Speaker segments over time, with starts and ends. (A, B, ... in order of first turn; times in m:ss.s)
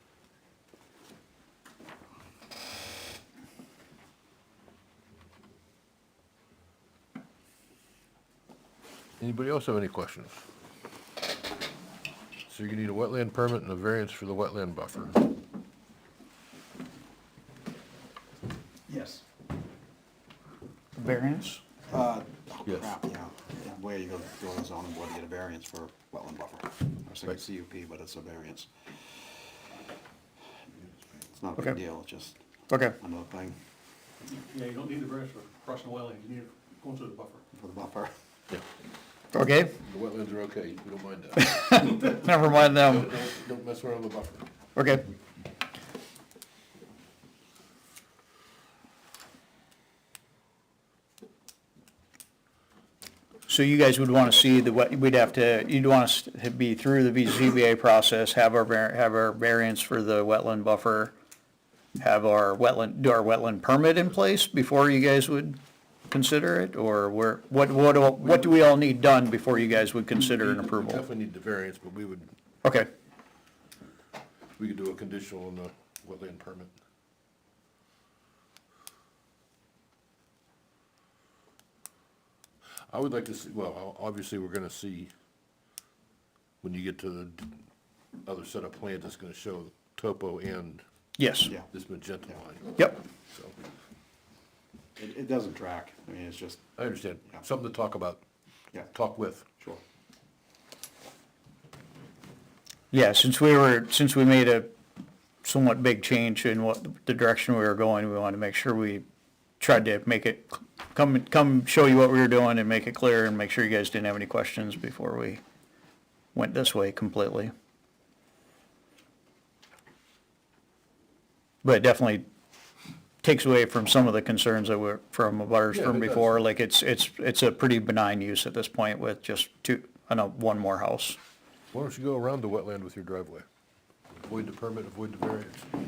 0:09.2-0:10.4 A
0:12.5-0:15.3 A
0:21.0-0:21.6 B
0:21.9-0:28.7 C
0:22.6-0:22.9 A
0:31.3-0:32.4 C
0:32.7-0:33.0 B
0:33.0-0:33.6 C
0:34.3-0:37.4 D
0:37.5-0:38.1 C
0:39.3-0:39.7 B
0:39.8-0:44.5 A
0:41.4-0:43.2 B
0:44.8-0:45.1 B
0:53.5-1:01.1 B
1:02.0-1:11.0 B
1:10.2-1:12.3 A
1:12.6-1:12.9 B
1:14.6-1:16.8 A
1:22.9-1:25.1 A
1:26.6-1:27.5 A
1:28.3-1:30.8 A
1:31.2-1:31.5 B
1:31.7-1:33.5 A
1:35.0-1:36.7 C
1:36.8-1:38.2 A
1:38.8-1:39.5 A
1:42.9-1:44.7 B
1:45.4-1:49.0 B
1:49.6-1:55.4 B
1:56.3-1:57.5 B
2:01.6-2:02.2 B
2:03.2-2:11.2 B
2:05.7-2:06.4 A
2:11.7-2:13.4 A
2:14.2-2:15.7 A